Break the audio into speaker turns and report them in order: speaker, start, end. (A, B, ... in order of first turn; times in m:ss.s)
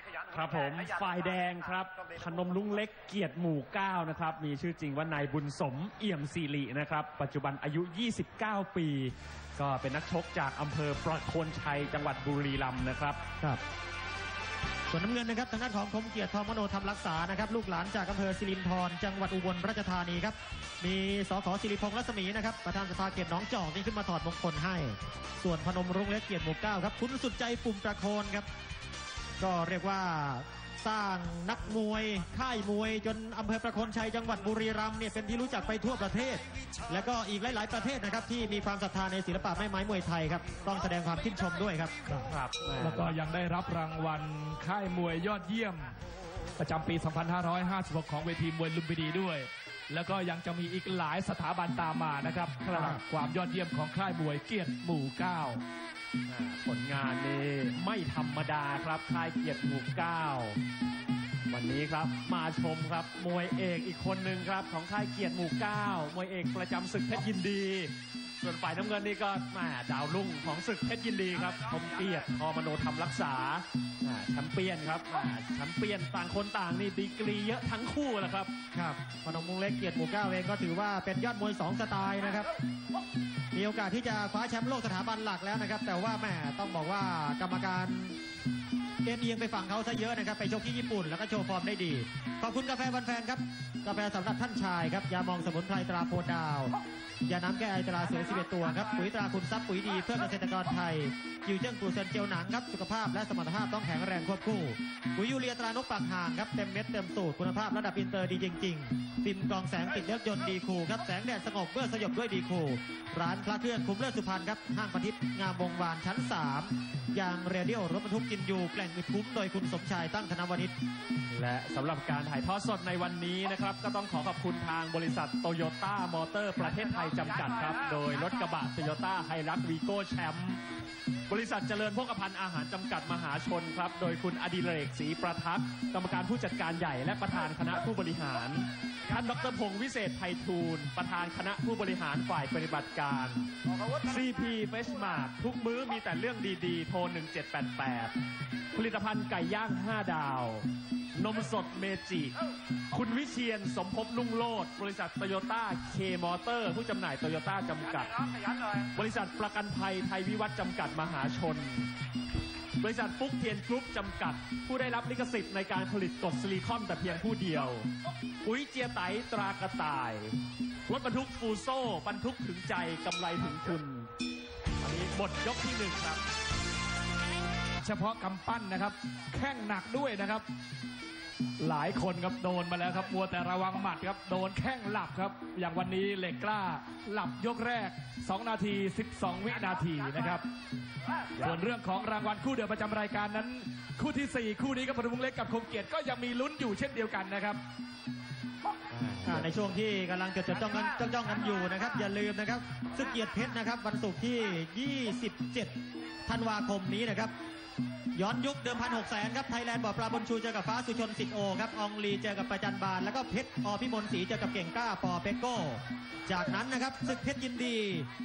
0:00.3-0:13.2 A
0:14.9-0:28.4 B
0:29.4-0:41.9 B
0:42.1-0:45.9 C
0:42.2-0:43.2 A
0:46.6-0:55.6 C
0:52.7-0:53.0 A
0:56.3-1:00.6 A
1:01.5-1:18.5 A
1:18.7-1:22.5 B
1:23.5-1:28.2 B
1:29.0-1:36.7 B
1:37.2-2:00.7 B
2:01.3-2:10.6 A
2:11.3-2:23.5 A
2:24.0-2:28.1 A
2:28.7-2:32.3 A
2:32.9-2:38.2 A
2:38.9-2:41.9 A
2:42.8-2:47.9 A
2:48.4-2:50.4 A
2:50.9-2:54.1 A
2:54.8-2:56.2 A
2:57.8-3:00.4 C
3:01.6-3:10.4 C
3:11.4-3:17.6 C
3:18.9-3:19.4 A
3:19.2-3:25.8 B
3:26.3-3:27.3 B
3:28.1-3:38.1 B